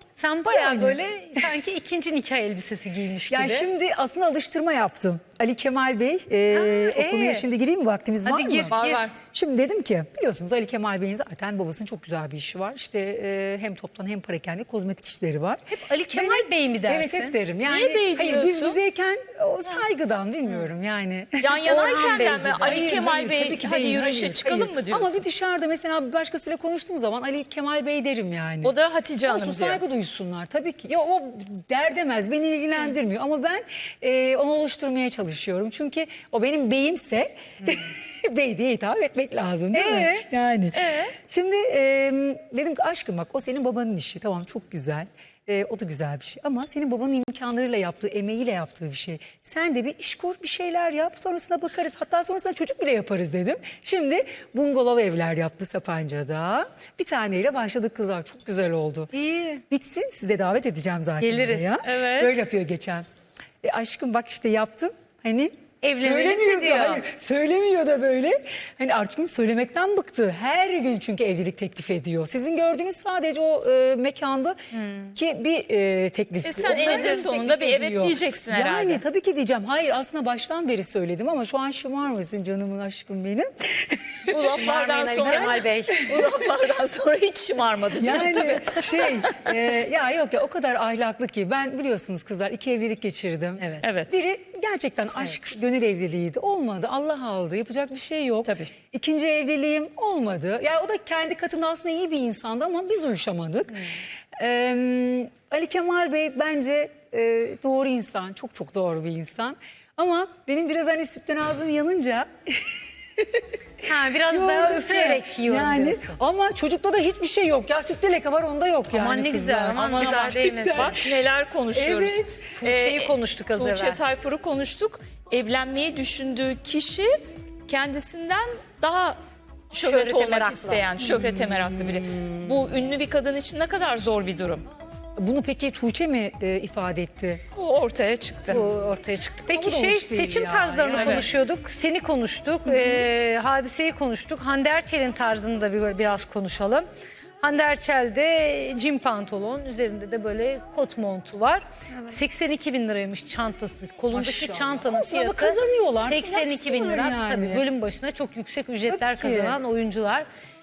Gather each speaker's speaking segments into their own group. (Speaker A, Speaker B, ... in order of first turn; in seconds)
Speaker A: 0.2-3.7, 6.5-7.5, 8.2-9.1, 15.7-17.4, 21.7-22.9, 39.7-40.2, 59.1-59.6, 61.2-61.7, 65.8-67.0, 74.7-75.1, 76.7-77.3, 84.3-86.2, 113.8-116.2, 118.9-121.0, 122.6-124.0, 129.7-130.9, 138.5-146.9, 147.4-160.2
Speaker B: 0.5-1.5, 3.3-28.7, 29.3-59.1, 59.7-63.0, 63.6-74.6, 75.2-84.6, 85.2-85.6, 88.0-113.5, 114.3-121.1, 121.7-122.5, 131.0-132.8, 135.2-137.4, 139.5-141.3, 142.7-143.0, 154.1-157.6, 158.9-159.6
Speaker C: 8.7-9.2, 17.6-18.8, 21.4-25.2, 28.6-29.8, 40.7-41.1, 61.8-62.4, 76.4-79.0, 84.3-89.6, 93.8-94.2, 119.8-127.1, 127.7-129.2, 129.7-134.7, 137.5-138.7, 140.9-141.3